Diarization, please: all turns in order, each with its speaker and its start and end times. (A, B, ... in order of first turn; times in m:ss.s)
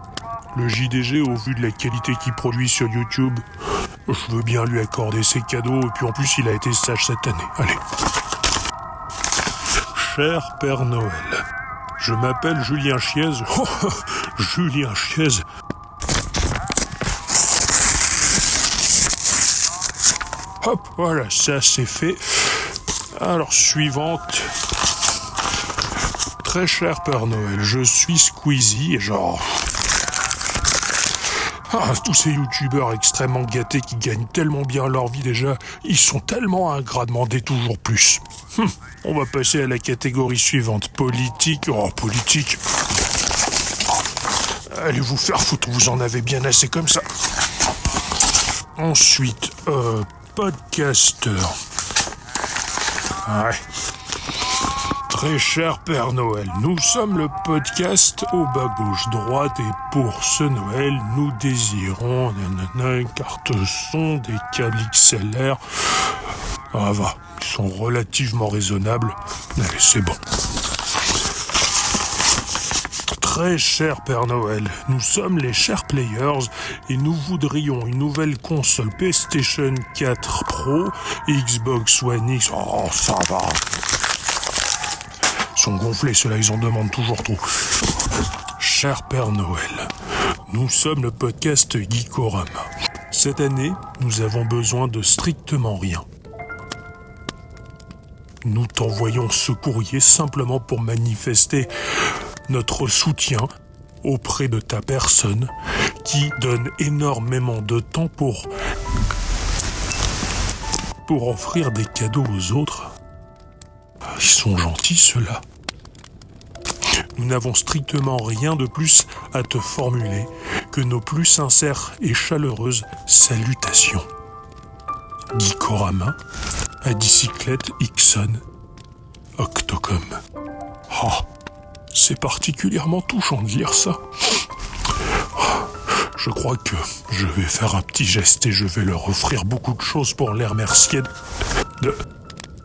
0:00.5-0:03.4 A
0:04.1-0:07.8 A
0:09.9-0:11.4 A
0:12.0-0:15.4 A
0:20.6-0:24.5 A
0:26.4-0:29.7 A
0:31.7-0:42.6 A
0:44.7-0:47.0 A
0:48.8-0:51.6 A
0:53.2-0:53.6 A
0:55.1-1:06.1 A
1:06.7-1:10.2 A
1:13.1-1:23.6 A
1:25.5-1:27.4 A
1:28.6-1:29.9 A
1:30.5-1:36.0 A
1:38.4-1:41.7 A
1:42.5-1:43.5 A
1:44.0-1:45.5 A
1:46.0-1:48.5 A
1:51.0-1:52.9 A
1:54.2-1:55.4 A
1:57.2-2:04.0 A
2:05.3-2:06.2 A
2:06.8-2:08.4 A
2:09.4-2:10.2 A
2:10.9-2:11.2 A
2:11.9-2:14.4 A
2:15.4-2:21.1 A